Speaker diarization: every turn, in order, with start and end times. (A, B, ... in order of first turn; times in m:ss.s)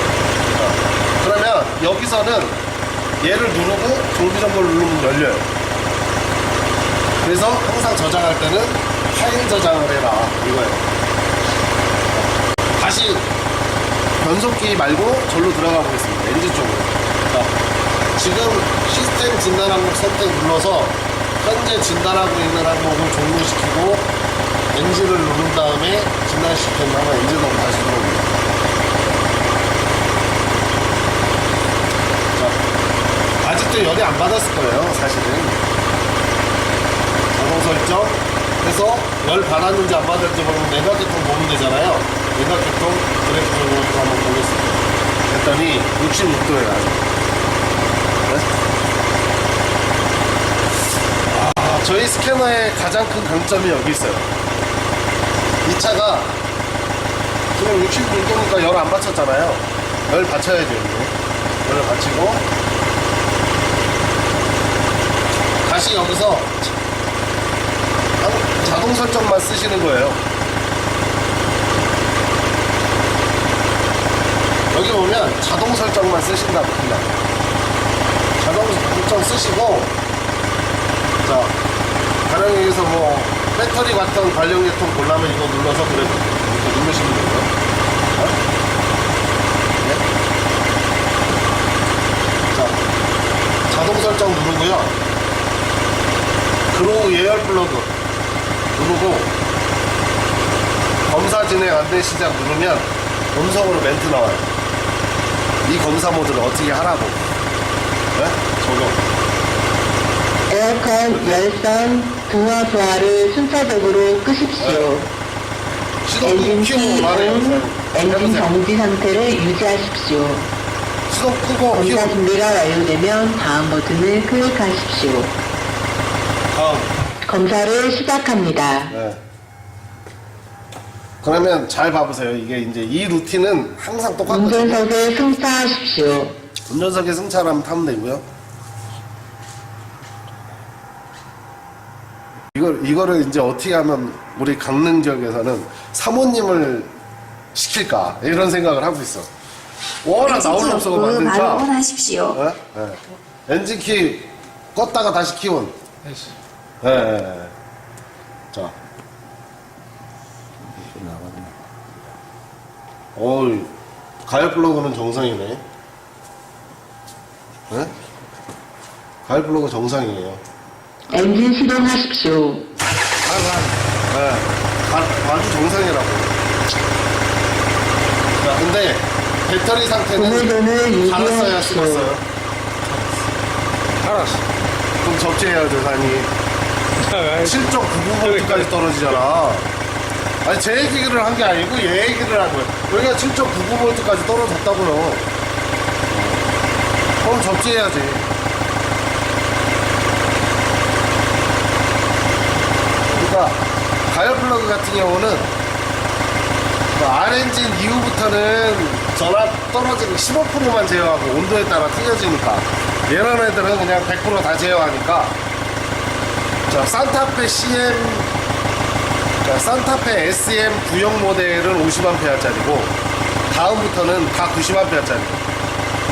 0:00.5-0:02.6 A
0:03.2-0:05.5 A
0:07.2-0:10.9 A
0:12.8-0:13.3 A
0:14.2-0:17.6 A
0:18.2-0:24.1 A
0:24.7-0:28.4 A
0:33.4-0:35.6 A
0:37.4-0:47.1 A
0:51.3-0:54.3 A
0:55.6-0:56.4 A
0:57.6-1:02.5 A
1:05.6-1:06.7 A
1:08.2-1:10.2 A
1:14.7-1:17.2 A
1:18.4-1:19.9 A
1:21.2-1:21.6 A
1:22.3-1:27.5 A
1:29.8-1:30.0 A
1:32.5-1:32.8 A
1:33.7-1:35.0 A
1:36.7-1:37.9 A
1:38.7-1:39.3 A
1:41.1-1:44.5 A
1:45.6-1:47.2 A
1:48.2-1:49.0 A
1:50.5-1:55.1 B
1:54.6-1:54.9 A
1:56.0-1:58.5 A
1:56.2-2:00.5 B
2:01.1-2:02.2 A
2:01.7-2:05.3 B
2:06.5-2:06.9 A
2:07.2-2:09.0 B
2:08.9-2:09.2 A
2:11.2-2:14.8 A
2:14.3-2:16.4 B
2:16.7-2:18.2 A
2:22.5-2:26.9 A
2:27.5-2:29.3 A
2:30.0-2:31.7 A
2:30.2-2:32.4 C
2:32.3-2:35.7 A
2:36.8-2:37.5 A
2:40.8-2:41.5 D
2:43.2-2:43.7 A
2:44.3-2:45.6 A
2:49.3-2:50.4 A
2:51.1-2:52.7 B
2:53.2-2:53.8 D
2:54.1-2:56.4 A
2:58.4-3:02.2 A
3:00.2-3:02.1 B
3:04.0-3:04.4 D
3:05.0-3:06.3 A
3:07.0-3:07.7 D
3:07.4-3:09.7 A
3:08.2-3:08.7 D
3:10.4-3:15.3 A
3:16.1-3:16.4 A
3:17.2-3:18.3 A
3:23.1-3:25.5 A
3:26.9-3:35.4 A
3:36.7-3:38.3 A
3:39.4-3:43.0 A
3:43.5-3:45.4 A